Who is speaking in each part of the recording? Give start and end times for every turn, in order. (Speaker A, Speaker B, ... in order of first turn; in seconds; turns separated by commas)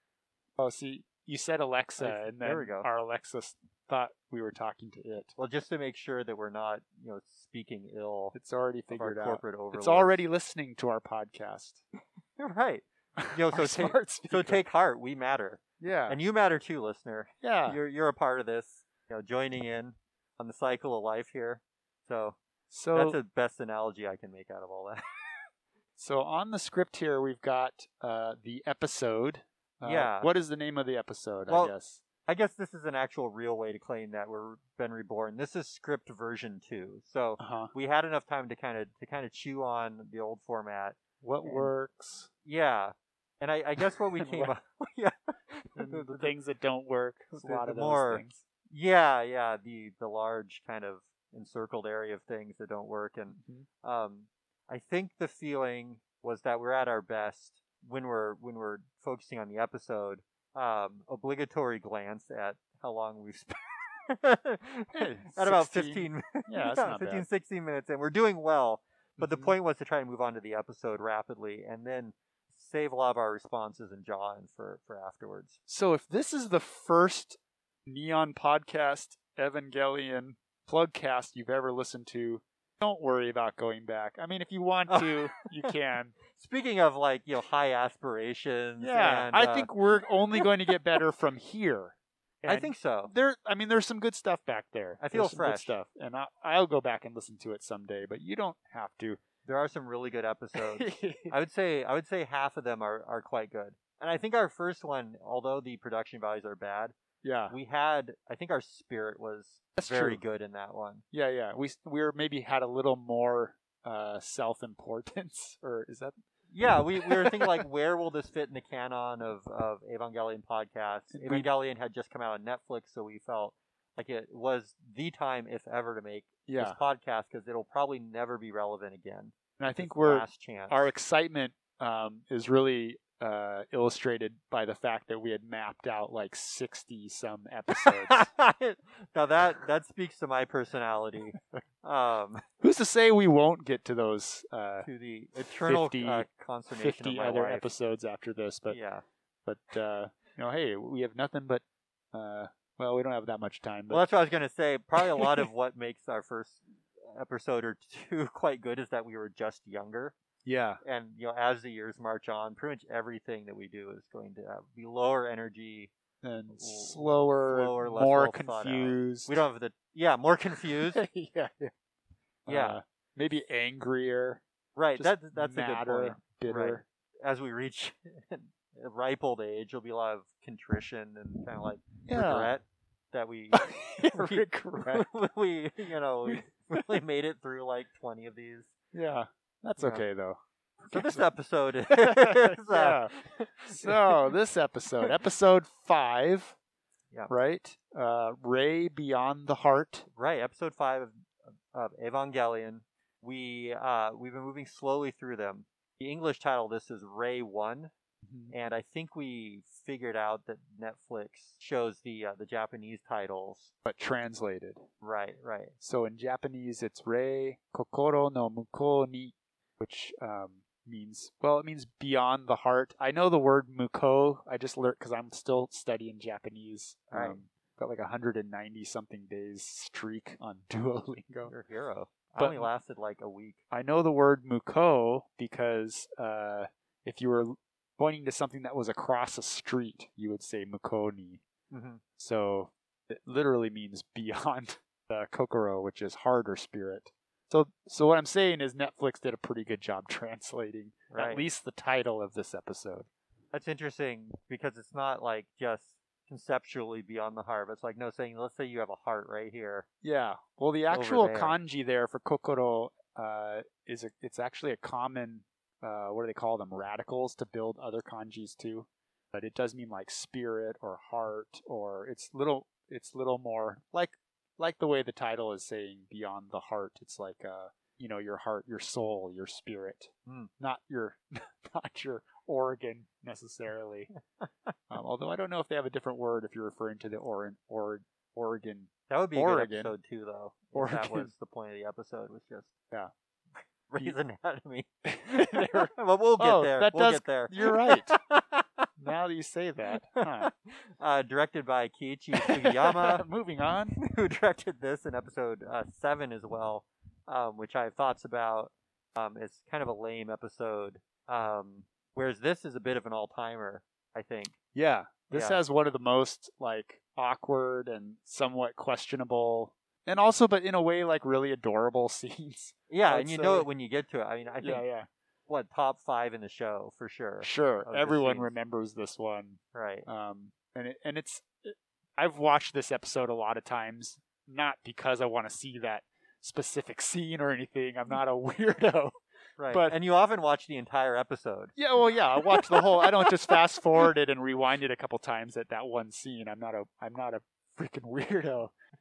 Speaker A: 0.6-5.3, Speaker B: 2.0-2.9, Speaker B: 5.4-8.3, Speaker A: 8.3-11.8, Speaker B: 8.9-10.2, Speaker B: 12.4-22.4, Speaker A: 13.2-14.6, Speaker A: 15.8-16.2, Speaker A: 17.4-17.8, Speaker A: 22.7-23.2, Speaker B: 22.9-25.0, Speaker A: 26.0-32.0, Speaker B: 29.8-30.3, Speaker B: 31.5-31.7, Speaker B: 32.2-41.7, Speaker A: 37.4-37.7, Speaker A: 41.2-42.3, Speaker B: 42.4-46.3, Speaker A: 44.1-44.5, Speaker A: 45.7-48.4, Speaker B: 47.4-75.6, Speaker A: 53.3-53.7, Speaker A: 64.9-67.2, Speaker A: 69.2-69.5, Speaker A: 75.7-86.1, Speaker B: 84.9-85.7, Speaker B: 86.3-89.8, Speaker A: 88.8-99.2, Speaker B: 90.3-90.7, Speaker B: 92.4-93.1, Speaker B: 95.0-95.7, Speaker B: 99.5-107.0, Speaker A: 100.5-101.3, Speaker A: 107.2-107.5, Speaker B: 107.5-111.0, Speaker A: 109.8-110.2, Speaker A: 111.1-116.2, Speaker B: 116.5-130.9, Speaker A: 116.9-117.6, Speaker A: 121.1-121.5, Speaker A: 126.5-126.8, Speaker A: 129.6-138.2, Speaker B: 137.8-142.4, Speaker A: 142.6-144.9, Speaker B: 144.8-147.7, Speaker A: 145.4-148.8, Speaker B: 148.7-149.0, Speaker A: 149.4-154.1, Speaker B: 153.9-160.1, Speaker A: 160.4-160.8, Speaker B: 160.8-165.9, Speaker A: 166.2-169.4, Speaker B: 166.5-171.0, Speaker A: 170.9-171.7, Speaker A: 172.4-174.4, Speaker B: 172.5-172.8, Speaker B: 174.8-188.7, Speaker A: 174.9-176.8, Speaker A: 182.1-182.5, Speaker A: 183.5-185.1, Speaker A: 186.2-186.8, Speaker A: 188.9-191.2, Speaker B: 189.8-190.0, Speaker B: 190.9-194.3, Speaker A: 191.9-196.6, Speaker A: 197.3-200.1, Speaker B: 200.1-207.9, Speaker A: 208.2-208.5, Speaker B: 208.5-213.7, Speaker A: 213.8-214.8, Speaker B: 215.0-215.7, Speaker A: 215.8-231.5, Speaker B: 227.1-227.4, Speaker B: 231.5-233.6, Speaker A: 232.4-232.7, Speaker A: 233.7-241.4, Speaker B: 241.7-242.0, Speaker A: 242.2-253.1, Speaker B: 251.1-251.4, Speaker B: 253.5-259.9, Speaker A: 260.0-284.1, Speaker B: 260.9-261.6, Speaker A: 284.9-289.9, Speaker B: 289.1-292.7, Speaker A: 290.7-291.3, Speaker B: 293.9-298.9, Speaker A: 295.0-298.2, Speaker A: 299.0-300.5, Speaker B: 300.4-303.2, Speaker A: 302.3-304.0, Speaker B: 303.9-314.5, Speaker A: 314.7-323.7, Speaker B: 315.3-315.6, Speaker B: 322.9-324.8, Speaker A: 324.6-325.1, Speaker B: 325.5-328.5, Speaker A: 327.4-339.1, Speaker B: 329.7-330.1, Speaker B: 339.6-341.7, Speaker A: 339.7-339.9, Speaker A: 341.8-348.7, Speaker B: 342.5-343.6